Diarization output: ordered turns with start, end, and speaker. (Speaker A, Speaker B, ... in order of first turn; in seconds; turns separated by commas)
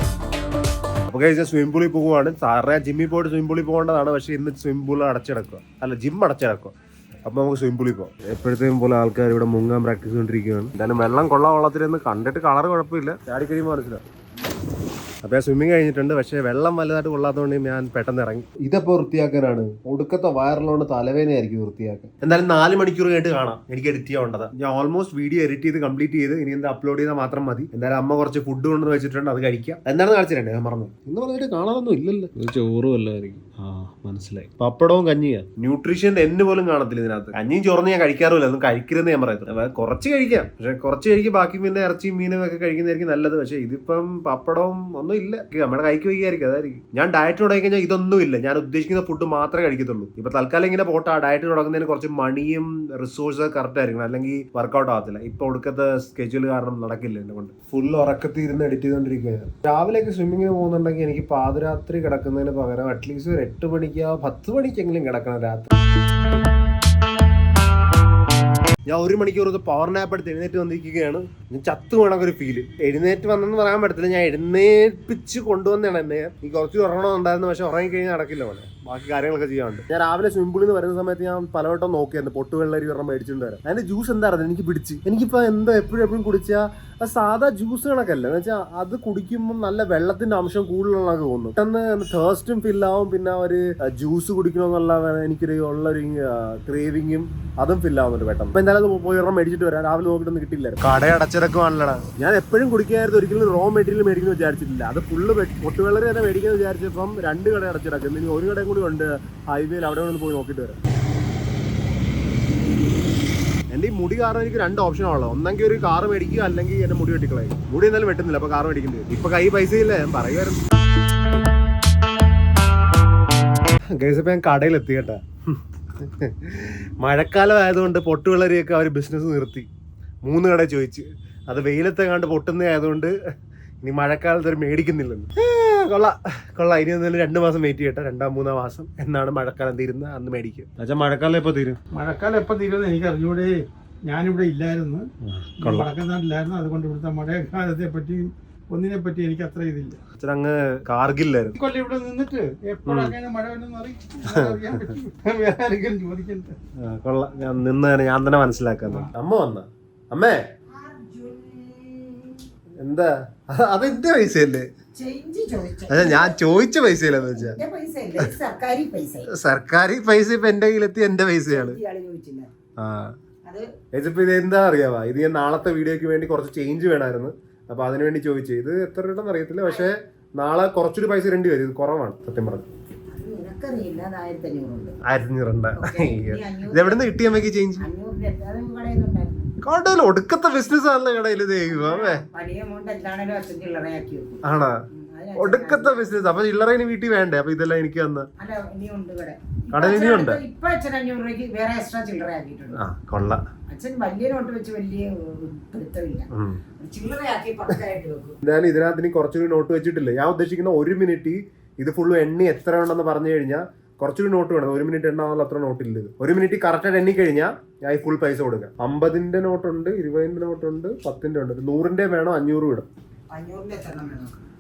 Speaker A: 1.1-14.0, Speaker A: 15.2-65.7, Speaker A: 68.9-110.8, Speaker A: 113.7-120.6, Speaker A: 123.9-129.7, Speaker A: 130.2-133.1, Speaker A: 133.8-141.8, Speaker B: 141.9-145.1, Speaker A: 145.2-145.9, Speaker B: 145.6-150.0, Speaker A: 150.2-151.6, Speaker B: 151.6-156.6, Speaker A: 152.8-153.2, Speaker A: 154.2-154.9, Speaker A: 156.8-160.4, Speaker C: 160.7-162.5, Speaker A: 162.8-164.7, Speaker C: 165.0-166.4, Speaker A: 165.9-167.6, Speaker C: 167.3-169.3, Speaker A: 169.3-171.8, Speaker C: 171.5-172.5, Speaker A: 172.8-173.2, Speaker C: 173.4-173.7, Speaker A: 173.9-182.7, Speaker C: 179.7-179.9, Speaker C: 183.1-185.0, Speaker A: 185.0-187.8, Speaker C: 185.8-189.5, Speaker A: 189.6-192.2, Speaker C: 191.7-196.2, Speaker A: 194.4-194.8, Speaker A: 195.4-198.3, Speaker C: 198.4-202.8, Speaker A: 199.7-200.4, Speaker A: 202.7-203.4, Speaker C: 203.7-208.4, Speaker A: 206.3-206.6, Speaker A: 208.4-222.9, Speaker C: 223.3-224.4